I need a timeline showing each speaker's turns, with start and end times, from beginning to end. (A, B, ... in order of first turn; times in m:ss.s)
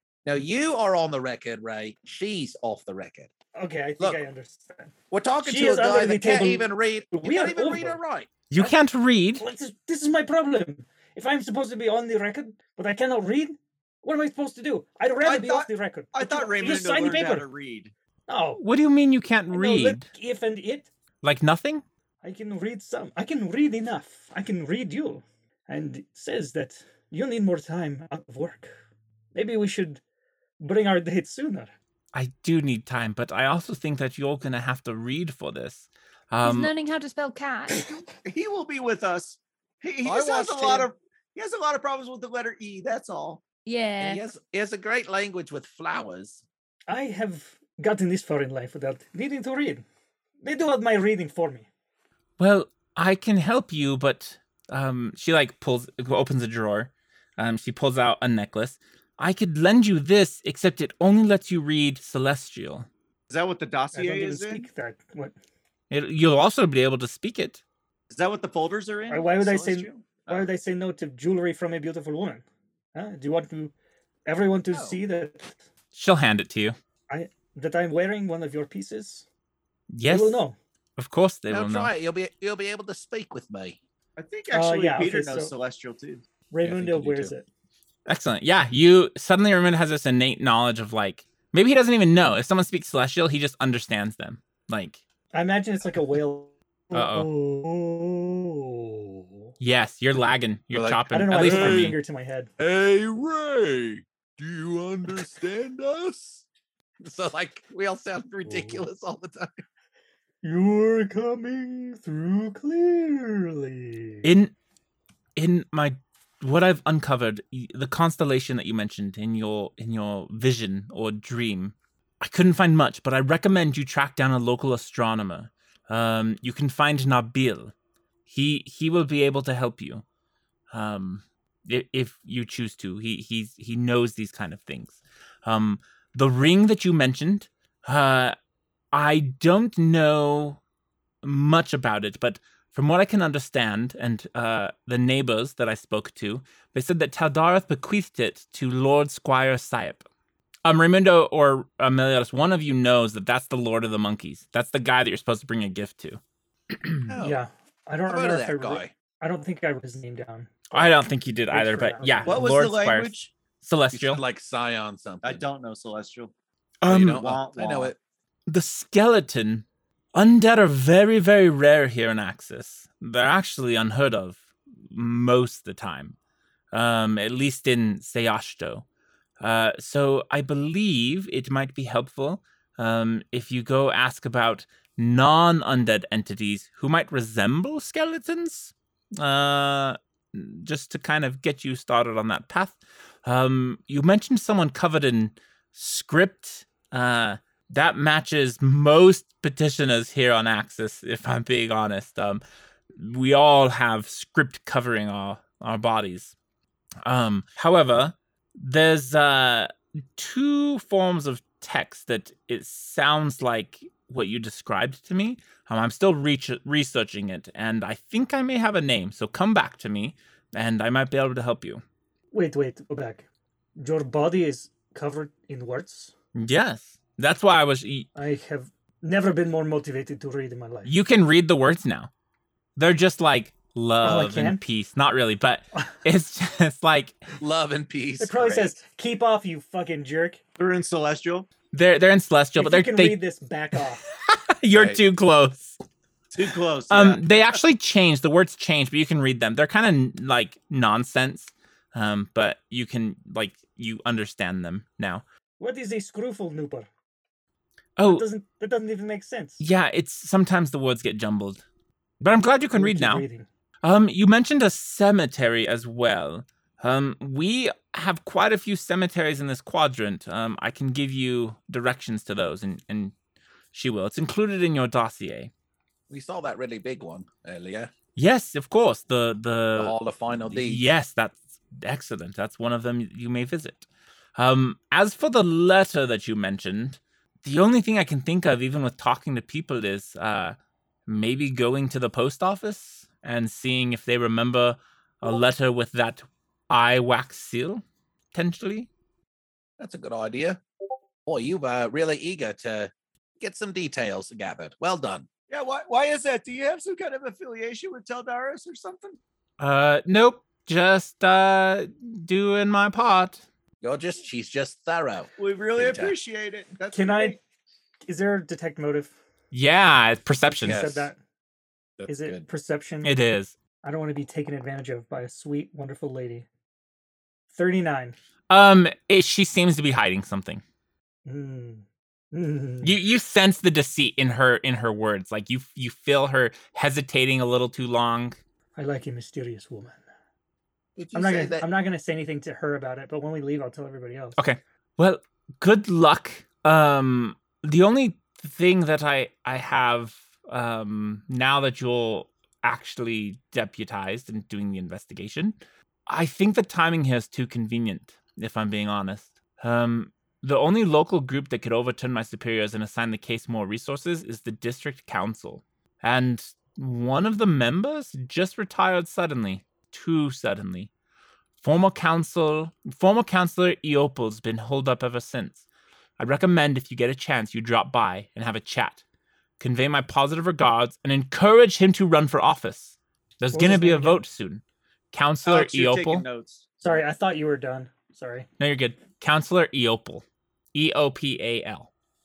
0:00.2-0:03.3 A
0:03.6-0:08.0 B
0:05.1-0:08.3 A
0:08.5-0:09.4 C
0:09.4-0:17.5 B
0:15.2-0:17.9 D
0:18.3-0:18.6 B
0:18.6-0:20.1 C
0:19.5-0:20.9 B
0:21.2-0:21.8 C
0:22.2-0:28.7 B
0:29.3-0:30.0 B
0:30.6-0:31.7 B
0:32.1-0:36.7 C
0:36.4-0:37.9 E
0:37.8-0:43.4 D
0:40.0-0:40.9 A
0:43.6-0:44.2 E
0:44.0-0:46.4 A
0:46.9-0:49.8 B
0:50.4-0:51.7 B
0:52.4-1:02.9 C
1:03.3-1:04.7 D
1:03.9-1:05.3 B
1:05.9-1:07.6 C
1:08.1-1:10.5 D
1:09.1-1:12.4 B
1:12.9-1:13.7 B
1:14.2-1:15.6 B
1:14.7-1:15.0 A
1:15.9-1:16.8 C
1:17.1-1:19.2 B
1:19.9-1:20.4 C
1:20.1-1:20.6 B
1:21.0-1:21.9 C
1:21.5-1:23.8 A
1:24.2-1:26.2 D
1:24.5-1:25.5 B
1:26.5-1:27.5 B
1:26.6-1:27.3 A
1:28.0-1:35.0 C
1:35.3-1:39.5 B
1:36.9-1:37.3 C
1:39.6-1:42.0 C
1:40.7-1:41.9 A
1:41.1-1:42.5 B
1:42.6-1:46.4 A
1:47.0-1:49.6 A
1:48.5-1:48.8 B
1:50.4-1:54.2 B
1:54.2-1:54.5 C
1:55.4-2:07.7 C
2:08.3-2:10.0 C
2:10.7-2:18.4 C
2:18.9-2:20.6 C
2:21.2-2:30.0 C
2:30.6-2:36.2 C
2:36.7-2:37.1 C
2:37.1-2:37.4 A
2:37.2-2:40.8 B
2:38.1-2:38.9 A
2:40.7-2:44.2 C
2:41.5-2:42.4 B
2:42.2-2:43.3 D
2:43.9-2:45.4 A
2:45.2-2:46.3 D
2:46.8-2:47.2 C
2:46.8-2:48.0 A
2:47.1-2:47.9 D
2:48.5-2:56.2 C
2:56.7-2:58.8 C
2:59.4-3:22.4 C
3:23.0-3:26.3 C
3:27.0-3:41.8 C
3:42.3-3:46.1 B
3:46.4-3:48.1 C
3:48.1-3:50.9 B
3:50.8-3:52.1 C
3:52.8-3:57.2 C
3:54.0-3:54.6 B
3:57.4-3:58.7 A
3:58.2-4:00.4 B
4:00.6-4:01.4 D
4:01.7-4:03.2 C
4:02.6-4:04.0 B
4:04.0-4:05.8 C
4:04.7-4:05.0 A
4:06.3-4:07.3 D
4:06.9-4:15.2 C
4:15.6-4:16.9 B
4:18.0-4:18.2 C
4:18.0-4:19.6 B
4:19.6-4:21.6 C
4:22.2-4:23.2 C
4:22.7-4:23.5 B
4:23.8-4:33.1 C
4:33.7-4:35.5 C
4:36.1-4:37.9 A
4:38.2-4:40.0 C
4:39.8-4:40.9 A
4:40.5-4:43.8 C
4:44.4-4:50.5 C
4:51.1-4:57.8 C
4:58.3-4:58.9 C
4:59.8-5:00.6 A
5:01.2-5:05.3 A
5:05.5-5:09.2 D
5:09.6-5:13.4 C
5:13.8-5:16.1 A
5:15.4-5:17.4 D
5:16.9-5:17.4 B
5:18.0-5:19.2 B
5:19.5-5:20.8 C
5:20.5-5:21.2 B
5:20.6-5:21.1 A
5:22.0-5:22.5 A
5:22.1-5:23.1 B
5:23.0-5:23.5 C
5:23.8-5:26.4 B
5:27.5-5:28.2 B
5:28.5-5:30.6 C
5:31.2-5:33.0 B
5:32.8-5:38.4 C
5:38.8-5:40.0 B
5:41.0-5:41.7 A
5:41.1-5:44.4 B
5:44.4-5:55.6 C
5:56.1-6:10.9 C
6:11.6-6:15.6 C
6:16.2-6:19.0 C
6:19.6-6:26.2 C
6:23.5-6:24.2 B
6:25.4-6:27.0 D
6:26.8-6:28.5 B
6:28.6-6:31.9 C